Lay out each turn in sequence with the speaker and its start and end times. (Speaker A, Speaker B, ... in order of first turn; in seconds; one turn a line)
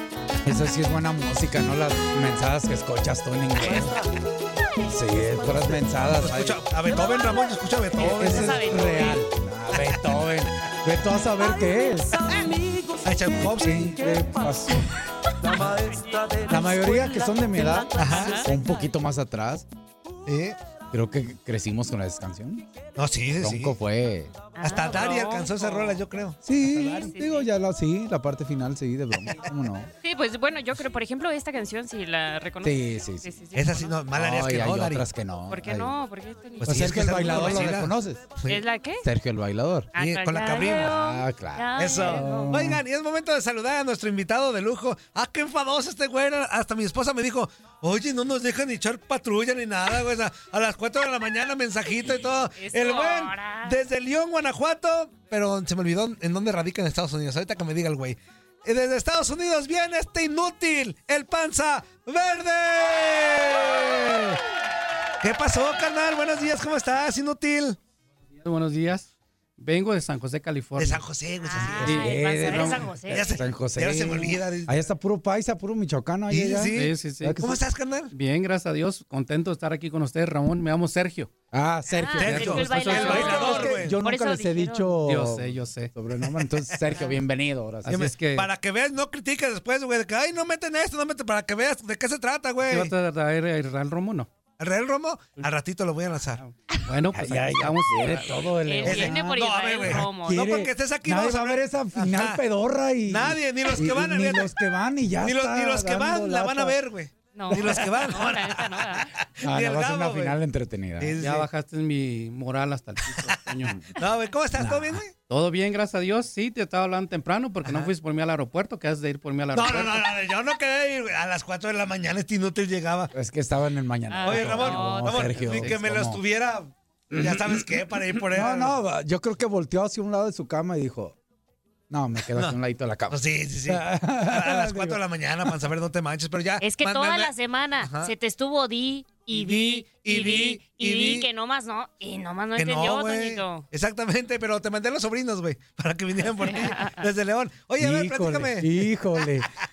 Speaker A: 0.4-4.0
Speaker B: 3.6-4.2
Speaker B: 4.8-6.1
Speaker A: 4.9-6.8
Speaker C: 6.2-8.8
Speaker B: 6.9-7.5
Speaker A: 8.0-12.2
Speaker D: 8.2-9.2
Speaker B: 11.1-19.0
Speaker C: 13.0-13.9
Speaker A: 13.5-14.8
Speaker A: 16.5-19.7
Speaker C: 17.9-18.3
Speaker D: 18.1-18.4
Speaker C: 20.2-20.6
Speaker A: 20.9-22.6
Speaker C: 23.0-23.7
Speaker A: 23.4-24.3
Speaker D: 24.6-27.5
Speaker C: 24.6-26.4
Speaker A: 26.4-29.9
Speaker D: 30.0-34.0
Speaker A: 32.6-33.3
Speaker C: 33.5-35.0
Speaker A: 34.1-35.9
Speaker D: 35.5-37.8
Speaker A: 36.6-38.3
Speaker C: 36.6-38.6
Speaker D: 38.5-39.0
Speaker A: 39.0-39.9
Speaker C: 39.9-40.9
Speaker D: 39.9-42.7
Speaker A: 40.7-42.8
Speaker C: 41.8-64.4
Speaker D: 52.5-53.8
Speaker C: 65.2-67.8
Speaker E: 68.4-71.0
Speaker C: 70.8-74.7
Speaker D: 71.4-73.4
Speaker E: 71.8-72.7
Speaker A: 71.8-77.6
Speaker C: 76.3-78.1
Speaker E: 76.7-77.4
Speaker E: 78.1-81.3
Speaker A: 81.5-88.1
Speaker D: 81.9-85.0
Speaker E: 82.2-83.7
Speaker C: 82.2-84.0
Speaker E: 85.0-85.9
Speaker D: 86.9-87.2
Speaker E: 87.8-88.5
Speaker C: 87.9-92.9
Speaker E: 92.6-94.3
Speaker C: 94.6-96.4
Speaker E: 96.4-98.3
Speaker A: 97.1-106.8
Speaker D: 98.6-100.5
Speaker C: 98.8-102.4
Speaker C: 103.1-104.5
Speaker C: 105.2-110.3
Speaker D: 107.3-109.1
Speaker A: 109.4-111.2
Speaker C: 111.0-111.5
Speaker E: 111.2-113.9
Speaker C: 114.0-115.1
Speaker A: 114.5-115.0
Speaker E: 115.3-120.1
Speaker C: 119.5-123.1
Speaker A: 123.1-126.2
Speaker D: 124.1-125.4
Speaker C: 124.2-128.7
Speaker E: 125.2-125.8
Speaker A: 127.1-131.2
Speaker A: 131.9-135.0
Speaker C: 133.1-138.1
Speaker D: 136.6-143.7
Speaker C: 139.3-141.3
Speaker C: 142.6-148.8
Speaker D: 146.4-147.0
Speaker A: 147.8-149.5